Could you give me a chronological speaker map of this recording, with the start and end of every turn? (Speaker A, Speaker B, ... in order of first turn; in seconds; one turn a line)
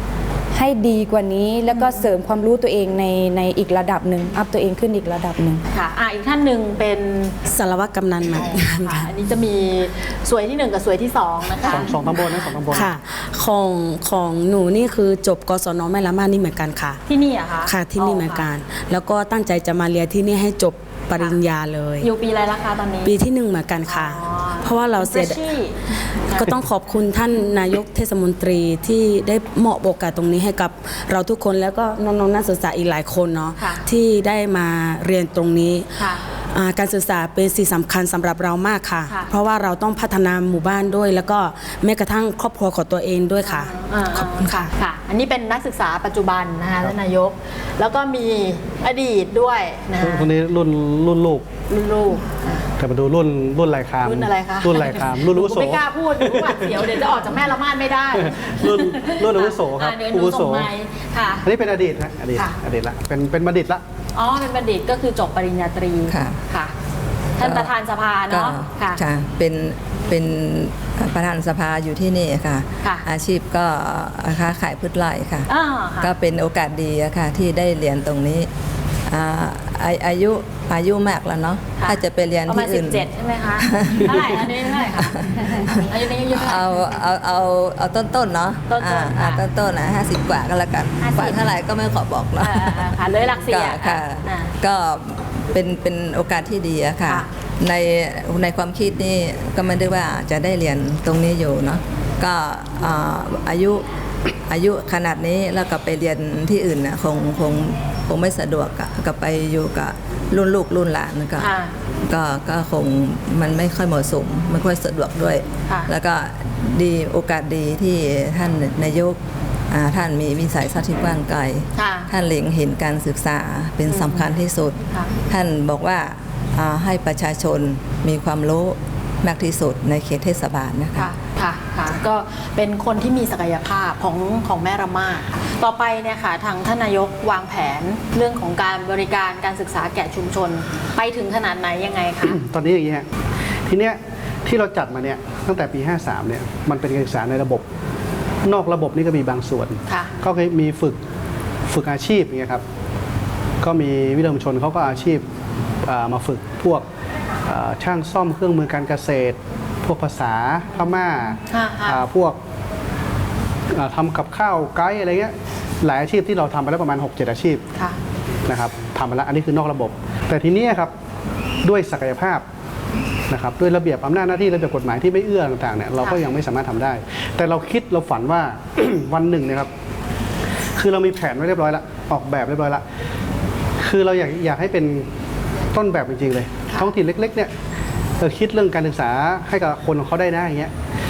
Speaker A: 0.5-5.6
Speaker B: 1.7-2.0
Speaker B: 5.7-7.4
Speaker C: 7.5-9.1
Speaker B: 8.2-12.9
Speaker D: 11.7-12.9
Speaker C: 12.7-17.0
Speaker B: 17.1-18.5
Speaker C: 17.6-22.1
Speaker B: 22.0-23.2
Speaker C: 23.0-25.4
Speaker B: 23.9-26.6
Speaker C: 26.1-35.9
Speaker B: 33.6-33.8
Speaker B: 36.0-36.2
Speaker C: 36.5-44.7
Speaker B: 39.1-39.3
Speaker B: 43.4-50.3
Speaker D: 50.0-51.5
Speaker B: 51.7-52.7
Speaker D: 52.8-57.2
Speaker B: 54.0-61.4
Speaker D: 58.1-60.7
Speaker D: 61.4-63.8
Speaker B: 64.1-66.7
Speaker E: 66.1-66.4
Speaker B: 67.4-69.0
Speaker E: 67.4-67.7
Speaker E: 68.3-75.5
Speaker B: 75.5-76.1
Speaker E: 76.0-78.5
Speaker E: 79.1-83.1
Speaker B: 81.8-87.0
Speaker E: 83.6-103.8
Speaker B: 88.7-89.4
Speaker B: 91.0-91.5
Speaker B: 92.4-94.5
Speaker E: 104.3-111.5
Speaker B: 111.4-111.7
Speaker E: 112.1-119.2
Speaker E: 119.7-131.1
Speaker B: 121.7-122.1
Speaker B: 123.9-124.3
Speaker B: 131.0-142.4
Speaker D: 142.2-143.1
Speaker D: 143.6-147.7
Speaker D: 148.4-151.0
Speaker B: 149.9-150.1
Speaker D: 151.7-152.6
Speaker D: 153.6-155.2
Speaker D: 155.8-156.8
Speaker D: 157.4-162.4
Speaker B: 161.5-162.0
Speaker D: 163.7-167.7
Speaker D: 168.4-170.9
Speaker D: 171.6-172.4
Speaker D: 173.3-179.7
Speaker D: 180.7-182.8
Speaker D: 183.8-185.2
Speaker D: 185.7-187.5
Speaker D: 188.2-190.7